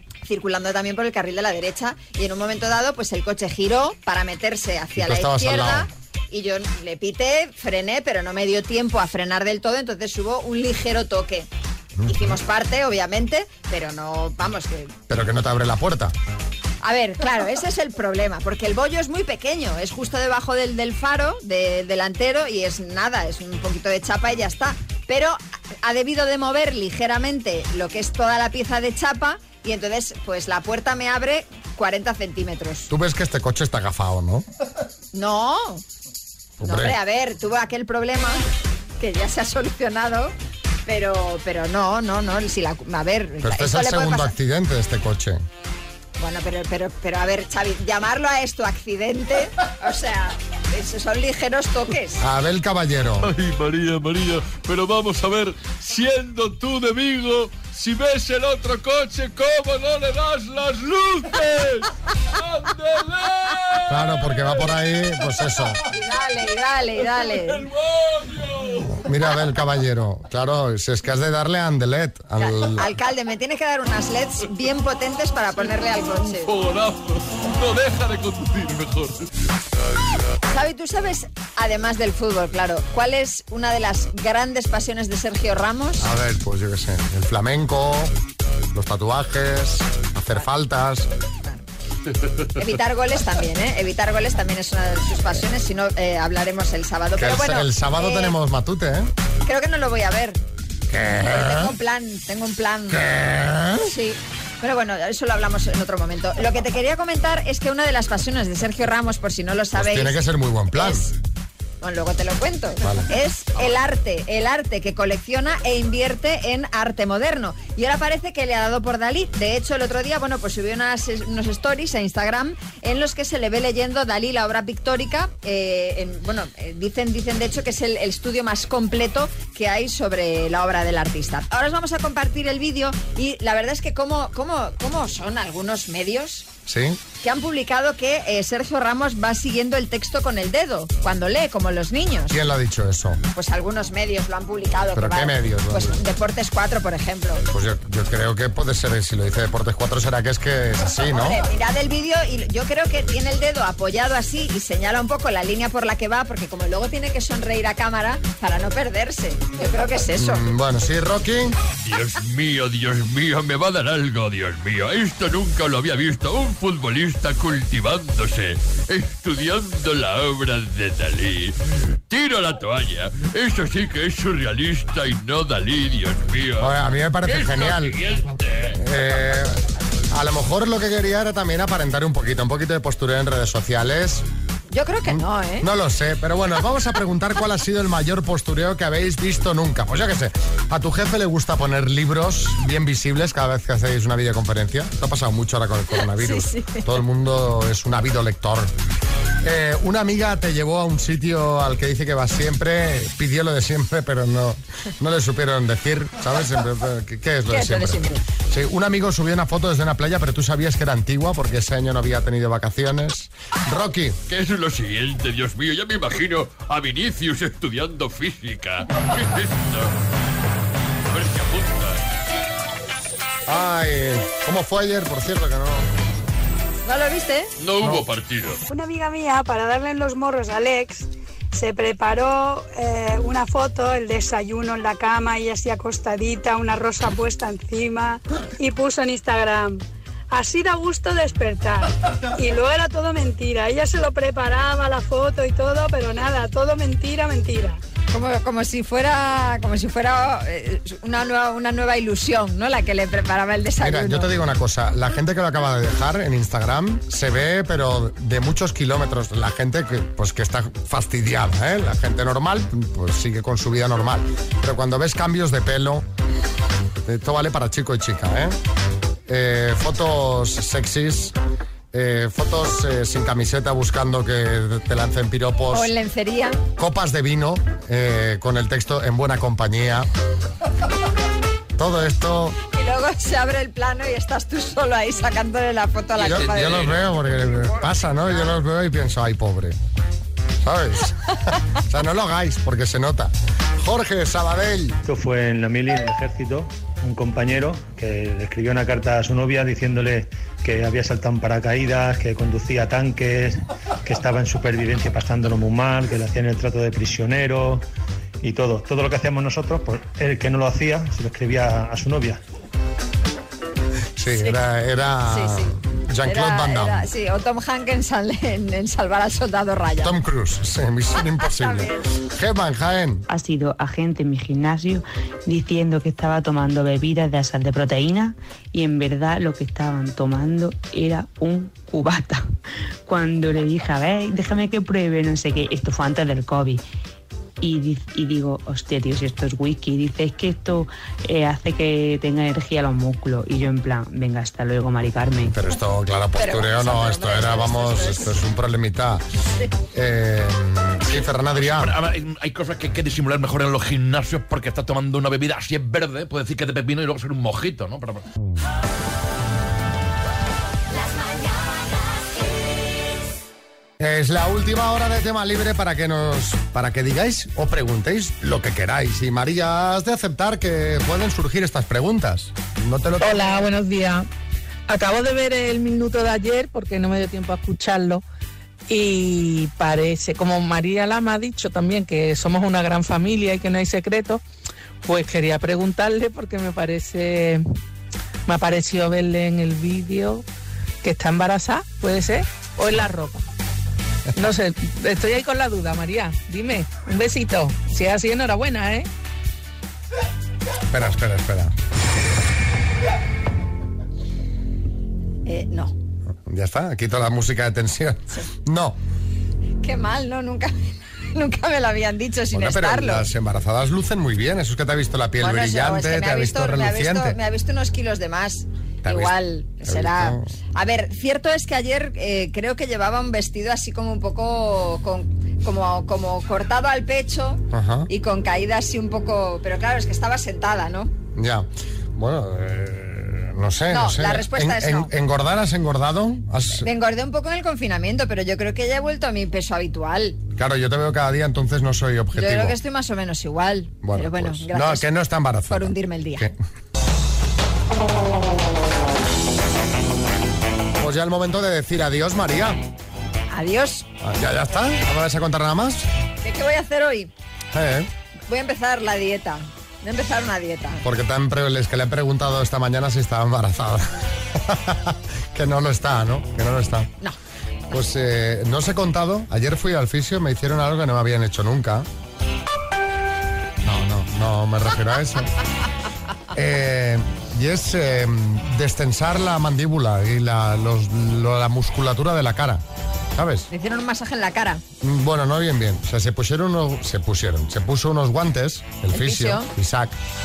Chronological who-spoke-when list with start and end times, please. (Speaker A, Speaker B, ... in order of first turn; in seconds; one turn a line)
Speaker A: 0.3-11.5
Speaker B: 5.0-5.9
Speaker B: 12.0-12.4
Speaker A: 12.1-14.9
Speaker B: 15.1-16.1
Speaker A: 16.8-32.9
Speaker B: 32.9-34.5
Speaker A: 35.1-35.8
Speaker B: 36.6-37.0
Speaker A: 36.6-38.4
Speaker A: 39.0-40.3
Speaker A: 40.9-44.3
Speaker B: 43.4-45.4
Speaker A: 46.2-52.2
Speaker B: 52.2-53.3
Speaker C: 53.4-61.9
Speaker C: 62.4-64.7
Speaker B: 63.9-65.8
Speaker A: 65.9-67.7
Speaker C: 67.1-68.9
Speaker B: 68.8-72.9
Speaker A: 72.4-76.5
Speaker C: 76.3-79.3
Speaker A: 80.5-86.1
Speaker B: 86.0-88.1
Speaker B: 88.7-91.1
Speaker A: 92.6-98.3
Speaker B: 97.2-99.1
Speaker A: 99.5-100.4
Speaker B: 100.9-101.7
Speaker A: 101.2-103.1
Speaker B: 102.9-103.9
Speaker A: 103.8-110.2
Speaker B: 109.7-111.1
Speaker A: 110.7-111.1
Speaker A: 111.8-136.5
Speaker B: 112.8-113.1
Speaker B: 136.7-137.0
Speaker A: 137.2-142.4
Speaker B: 142.3-143.2
Speaker A: 143.3-147.4
Speaker B: 144.9-146.0
Speaker B: 147.5-151.4
Speaker A: 151.1-160.5
Speaker B: 160.2-161.6
Speaker C: 161.8-178.8
Speaker B: 176.6-178.0
Speaker B: 178.7-184.2
Speaker A: 184.7-185.7
Speaker B: 185.1-198.7
Speaker A: 196.2-196.8
Speaker B: 199.4-214.2
Speaker A: 207.5-208.2
Speaker C: 214.3-219.9
Speaker C: 221.1-222.0
Speaker B: 223.5-225.9
Speaker A: 226.8-227.5
Speaker C: 227.6-228.6
Speaker D: 228.7-247.8
Speaker A: 248.1-254.3
Speaker B: 253.8-266.1
Speaker B: 267.1-268.6
Speaker B: 269.3-271.4
Speaker B: 271.9-275.9
Speaker A: 275.7-276.6
Speaker B: 276.8-280.1
Speaker B: 281.8-282.6
Speaker A: 282.7-287.1
Speaker B: 286.1-289.8
Speaker B: 290.6-291.2
Speaker B: 291.9-295.0
Speaker E: 295.1-307.9
Speaker E: 308.4-312.4
Speaker B: 314.2-317.1
Speaker A: 315.3-320.1
Speaker B: 320.0-323.3
Speaker A: 321.4-322.1
Speaker F: 323.3-332.4
Speaker F: 333.1-336.8
Speaker F: 337.6-345.6
Speaker B: 345.4-349.2
Speaker A: 346.4-348.4
Speaker B: 349.9-352.0
Speaker G: 351.6-358.2
Speaker B: 364.0-373.7
Speaker H: 373.2-374.3
Speaker H: 374.9-378.2
Speaker H: 378.9-384.4
Speaker H: 385.0-387.6
Speaker H: 388.5-390.4
Speaker H: 391.0-393.4
Speaker H: 394.4-399.1
Speaker B: 400.9-401.7
Speaker A: 405.5-405.9
Speaker B: 406.5-409.0
Speaker A: 409.8-410.7
Speaker A: 411.3-413.3
Speaker B: 412.5-417.4
Speaker A: 415.4-431.1
Speaker B: 419.0-420.5
Speaker B: 427.7-428.1
Speaker B: 431.4-436.9
Speaker A: 433.9-435.1
Speaker A: 436.8-440.4
Speaker B: 440.6-442.8
Speaker A: 442.3-445.1
Speaker B: 444.0-446.6
Speaker A: 445.7-446.5
Speaker B: 451.0-452.8
Speaker A: 453.5-454.1
Speaker B: 454.2-456.1
Speaker A: 456.4-457.3
Speaker B: 457.7-458.1
Speaker A: 458.5-461.0
Speaker B: 461.0-467.1
Speaker B: 467.9-472.1
Speaker B: 473.8-475.5
Speaker B: 476.5-482.8
Speaker B: 483.4-483.7
Speaker A: 483.7-484.8
Speaker B: 485.0-490.2
Speaker A: 489.1-489.7